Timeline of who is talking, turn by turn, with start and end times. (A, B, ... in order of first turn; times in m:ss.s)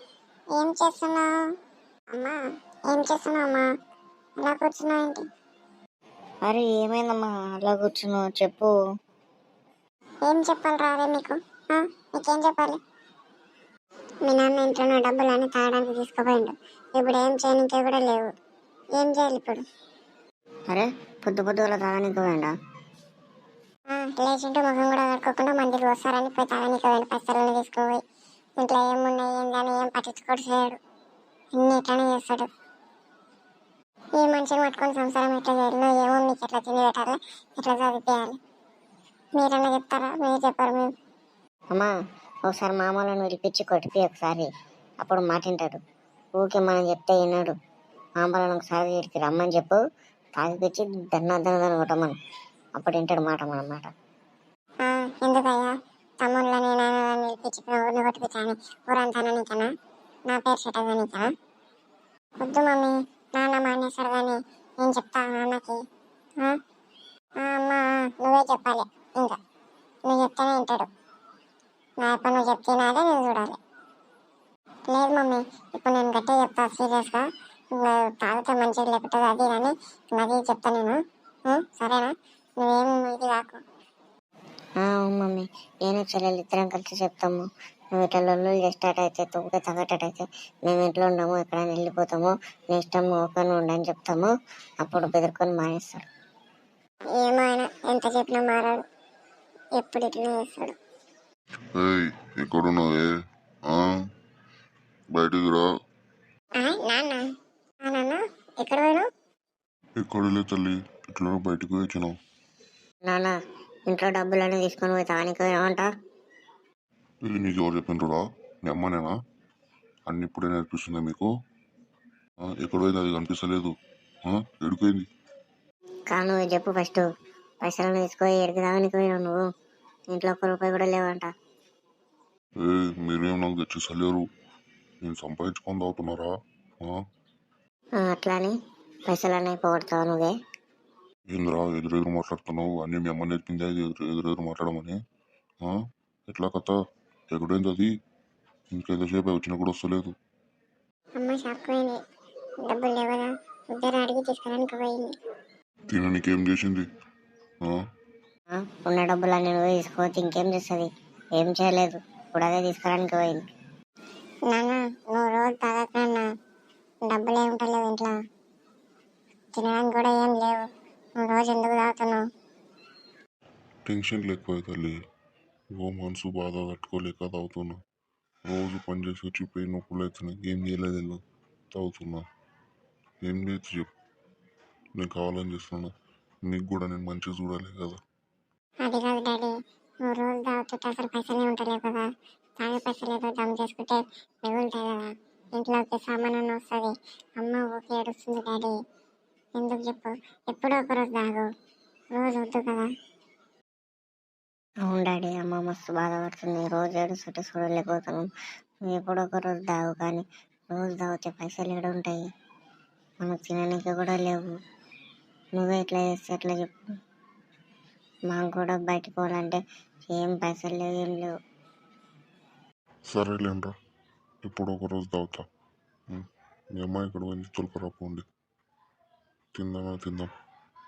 0:00.5-0:01.3 A
0:02.1-0:03.6 A
0:04.4-0:05.2 A
0:06.4-0:08.8 B
0:10.2-0:12.8 A
0:14.2-0:18.3 A
0:18.9-0:19.6 A
0:20.7-0:22.5 B
0:23.9-0:28.0 A
0:28.6-0:30.8 A
0:31.5-0:32.5 A
0:34.2-0:38.4 A
0:39.3-0:40.9 A
0:42.4-0:44.5 B
0:45.0-0:45.8 B
0:46.3-0:47.6 B
0:48.2-0:49.8 B
0:50.4-0:52.2 B
0:52.8-0:53.9 B
0:54.8-0:59.7 A
1:00.3-1:01.3 A
1:02.4-1:05.8 A
1:07.4-1:09.4 A
1:10.0-1:10.9 A
1:12.0-1:13.6 A
1:14.9-1:21.0 A
1:21.5-1:23.6 A
1:24.8-1:34.3 B
1:34.8-1:36.0 B
1:37.1-1:38.8 A
1:39.8-1:40.8 A
1:41.7-1:43.1 C
1:45.1-1:45.6 C
1:46.6-1:47.2 A
1:47.8-1:49.0 A
1:50.0-1:52.1 C
1:53.1-1:53.4 B
1:53.9-1:55.9 B
1:57.2-1:59.1 C
2:00.1-2:01.3 C
2:02.4-2:03.7 C
2:04.3-2:05.1 C
2:06.1-2:07.0 B
2:07.6-2:09.4 B
2:10.1-2:11.3 B
2:12.6-2:14.2 C
2:15.0-2:16.3 C
2:18.0-2:18.5 B
2:19.1-2:20.3 B
2:21.3-2:25.0 C
2:26.3-2:26.7 C
2:27.3-2:27.9 C
2:28.7-2:30.1 C
2:31.2-2:32.0 A
2:32.6-2:35.1 A
2:35.9-2:36.8 C
2:38.5-2:43.4 B
2:44.5-2:46.3 A
2:47.0-2:48.2 A
2:49.5-2:50.7 A
2:51.2-2:52.2 A
2:53.8-2:55.0 C
2:55.8-2:57.8 C
2:58.5-3:01.2 C
3:01.7-3:02.2 C
3:03.2-3:03.9 C
3:05.0-3:05.9 C
3:06.4-3:08.0 C
3:08.8-3:12.1 A
3:12.6-3:18.7 A
3:19.6-3:21.5 A
3:22.1-3:22.9 A
3:24.8-3:28.3 B
3:28.9-3:32.2 B
3:33.2-3:34.5 B
3:35.6-3:36.7 B
3:38.3-3:41.3 B
3:43.1-3:43.7 C
3:44.4-3:45.4 C
3:46.1-3:48.2 C
3:49.5-3:50.3 C